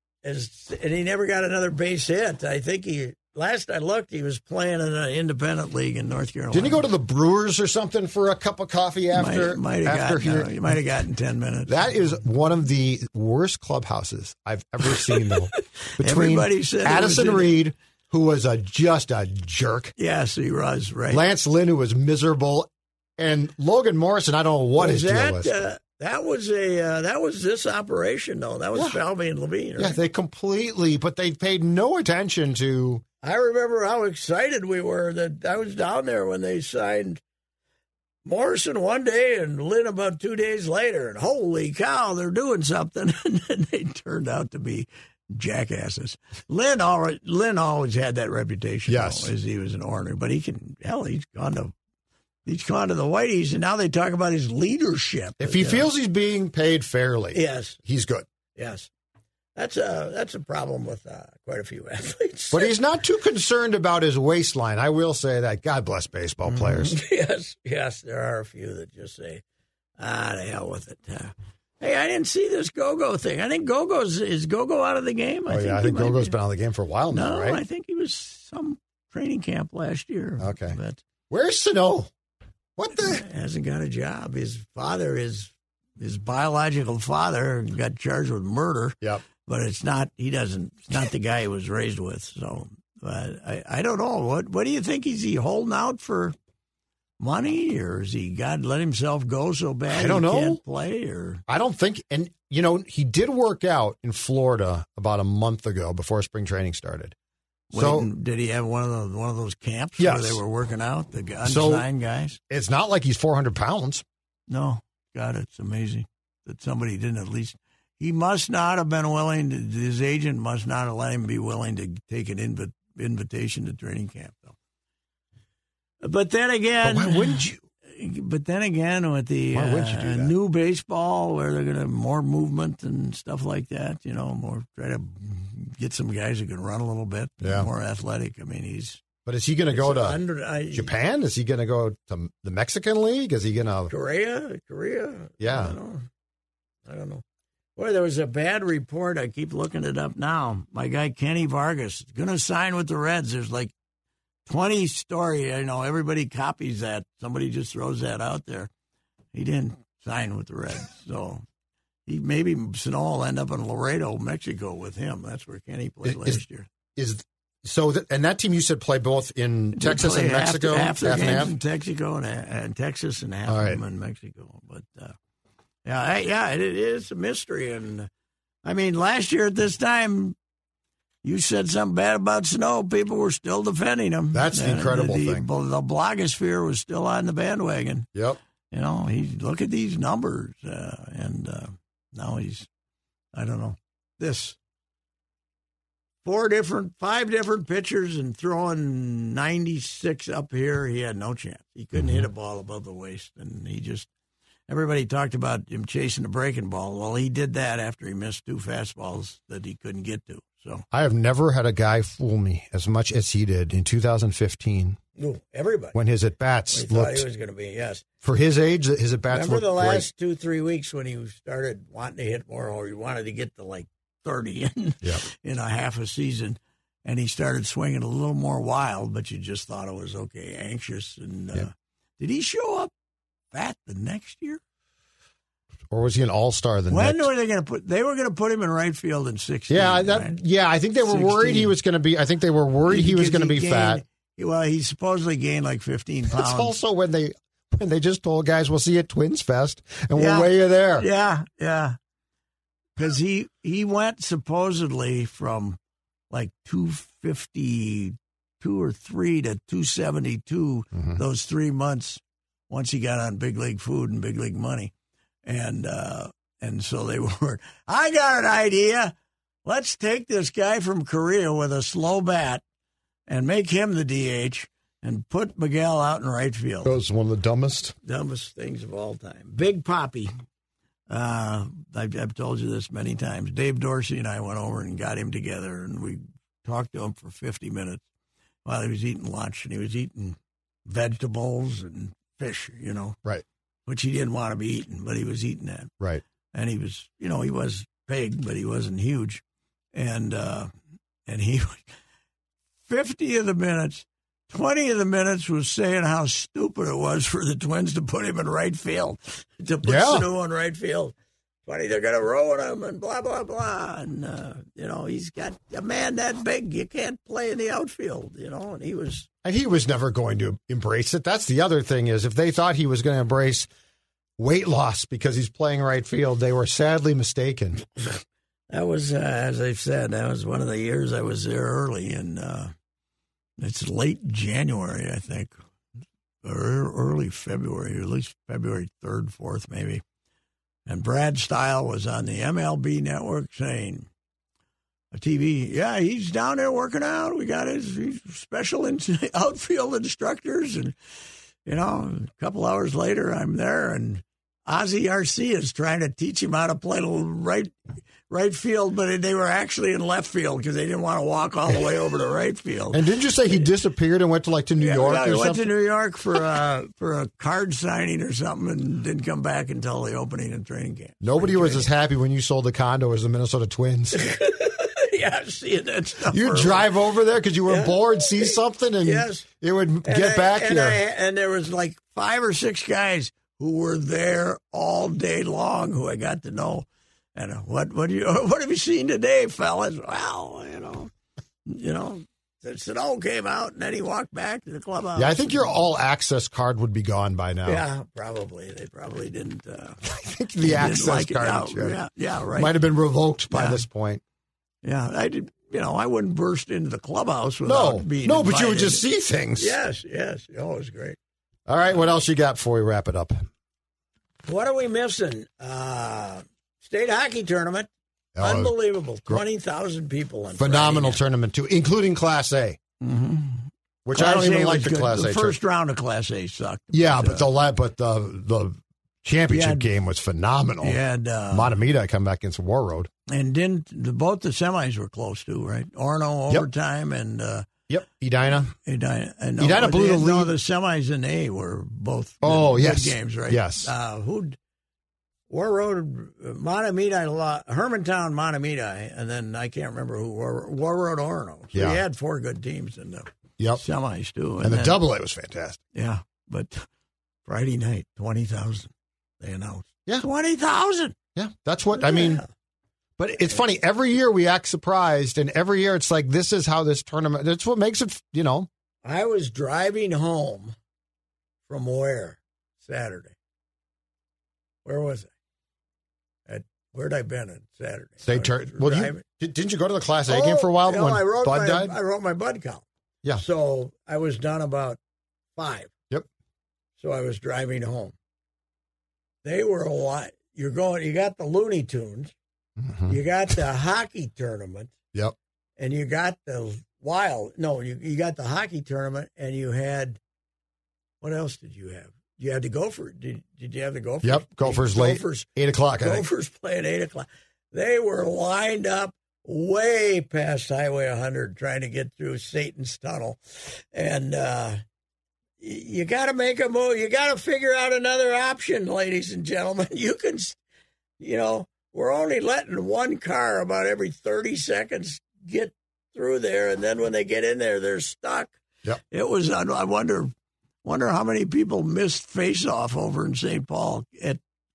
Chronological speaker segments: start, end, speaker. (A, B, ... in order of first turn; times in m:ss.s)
0:00.2-0:06.8 A
0:06.5-0:10.7 B
0:09.1-0:11.8 A
0:11.6-0:19.9 B
0:16.0-0:17.6 A
0:20.0-0:21.2 A
0:21.1-0:25.6 B
0:24.8-0:30.0 A
0:29.8-0:33.0 B
0:33.2-0:37.2 A
0:38.2-0:51.7 A
0:48.9-0:49.3 B
0:52.4-0:55.9 A
0:55.4-0:58.3 B
0:57.3-0:57.8 A
0:58.5-0:58.9 A
0:59.6-1:02.7 A
1:02.5-1:07.0 B
1:06.5-1:09.4 A
1:10.0-1:16.3 A
1:15.5-1:17.6 B
1:17.1-1:21.0 A
1:20.4-1:20.8 B
1:21.3-1:22.1 B
1:22.8-1:23.2 B
1:22.9-1:36.4 A
1:37.2-1:41.4 A
1:39.9-1:40.6 B
1:41.5-1:47.1 B
1:47.7-1:52.4 A
1:47.7-1:48.1 B
1:50.0-1:50.4 B
1:51.4-1:51.8 B
1:52.5-1:54.0 B
1:54.5-2:04.6 A
2:06.0-2:19.0 A
2:06.8-2:07.6 B
2:09.5-2:10.3 B
2:17.4-2:17.7 B
2:19.2-2:23.9 B
2:19.7-2:20.9 A
2:23.9-2:26.1 A
2:25.4-2:25.8 B
2:26.8-2:27.2 A
2:27.8-2:33.7 A
2:34.4-2:38.7 A
2:39.3-2:41.4 A
2:42.0-2:46.7 A
2:46.0-2:46.4 B
2:46.9-2:51.5 B
2:49.8-2:55.2 A
2:53.5-2:53.8 B
2:55.8-2:58.1 A
2:58.6-3:00.4 A
3:01.2-3:08.1 A
3:04.3-3:05.4 B
3:08.7-3:12.7 A
3:13.3-3:14.6 A
3:16.2-3:24.1 A
3:22.0-3:22.3 B
3:24.7-3:30.8 A
3:30.9-3:35.0 B
3:35.2-3:36.0 A
3:35.9-3:37.3 B
3:36.7-3:38.0 A
3:38.2-3:40.1 B
3:39.3-3:52.9 A
3:53.5-3:54.6 A
3:55.9-3:57.3 B
3:56.9-4:00.4 A
3:59.7-4:04.0 B
4:01.0-4:01.7 A
4:02.9-4:06.7 A
4:06.3-4:11.1 B
4:10.2-4:12.0 A
4:13.0-4:15.8 A
4:16.3-4:24.9 A
4:25.4-4:29.1 A
4:29.6-4:32.6 A
4:33.3-4:36.9 A
4:36.8-4:37.9 B
4:38.0-4:40.3 A
4:41.1-4:48.0 A
4:48.6-4:53.2 A
4:53.8-4:55.9 A
4:56.5-4:59.4 A
4:59.9-5:00.7 A
5:01.2-5:01.9 A
5:02.8-5:11.1 A
5:09.8-5:10.3 B
5:11.6-5:19.3 A
5:19.4-5:23.7 B
5:24.4-5:27.8 B
5:28.7-5:32.7 A
5:33.6-5:35.5 A
5:36.4-5:40.0 A
5:40.8-5:44.1 A
5:45.1-5:50.9 A
5:51.6-5:57.7 A
5:58.3-6:03.0 A
6:02.9-6:05.7 B
6:04.8-6:11.9 A
6:11.2-6:14.3 B
6:14.1-6:16.9 A
6:16.3-6:21.0 B
6:17.6-6:19.4 A
6:20.0-6:31.1 A
6:31.6-6:35.7 A
6:35.2-6:37.8 B
6:37.6-6:40.0 A
6:40.0-6:42.0 B
6:40.6-6:42.7 A
6:42.5-6:44.2 B
6:43.5-6:43.8 A
6:44.8-6:49.0 A
6:47.6-6:49.8 B
6:49.6-6:51.2 A
6:51.7-6:53.4 B
6:54.4-6:57.9 A
6:58.4-6:58.7 B
6:58.4-7:01.2 A
7:00.6-7:02.8 B
7:03.0-7:07.5 A
7:04.0-7:05.6 B
7:06.9-7:11.0 B
7:09.5-7:09.9 A
7:10.8-7:11.7 A
7:11.5-7:13.1 B
7:13.3-7:17.7 A
7:17.9-7:18.7 B
7:18.8-7:24.6 A
7:19.6-7:20.5 B
7:22.4-7:23.9 B
7:25.5-7:35.0 A
7:31.7-7:32.0 B
7:34.6-7:35.8 B
7:35.9-7:36.8 A
7:37.4-7:41.1 A
7:41.4-7:42.4 B
7:42.0-7:42.4 A
7:43.2-7:48.7 B
7:49.0-7:50.8 A
7:51.7-7:53.3 A
7:54.8-7:55.3 A
7:56.5-7:59.2 A
7:58.2-8:02.0 B
8:00.3-8:02.8 A
8:03.4-8:05.0 A
8:05.6-8:05.9 A
8:07.0-8:08.1 A
8:09.4-8:12.3 A
8:12.8-8:13.2 B
8:13.1-8:14.9 A
8:15.8-8:20.2 A
8:21.2-8:25.5 A
8:24.2-8:26.2 B
8:26.0-8:34.8 A
8:35.6-8:40.6 A
8:41.2-8:48.6 A
8:49.1-8:50.3 A
8:50.8-8:54.4 A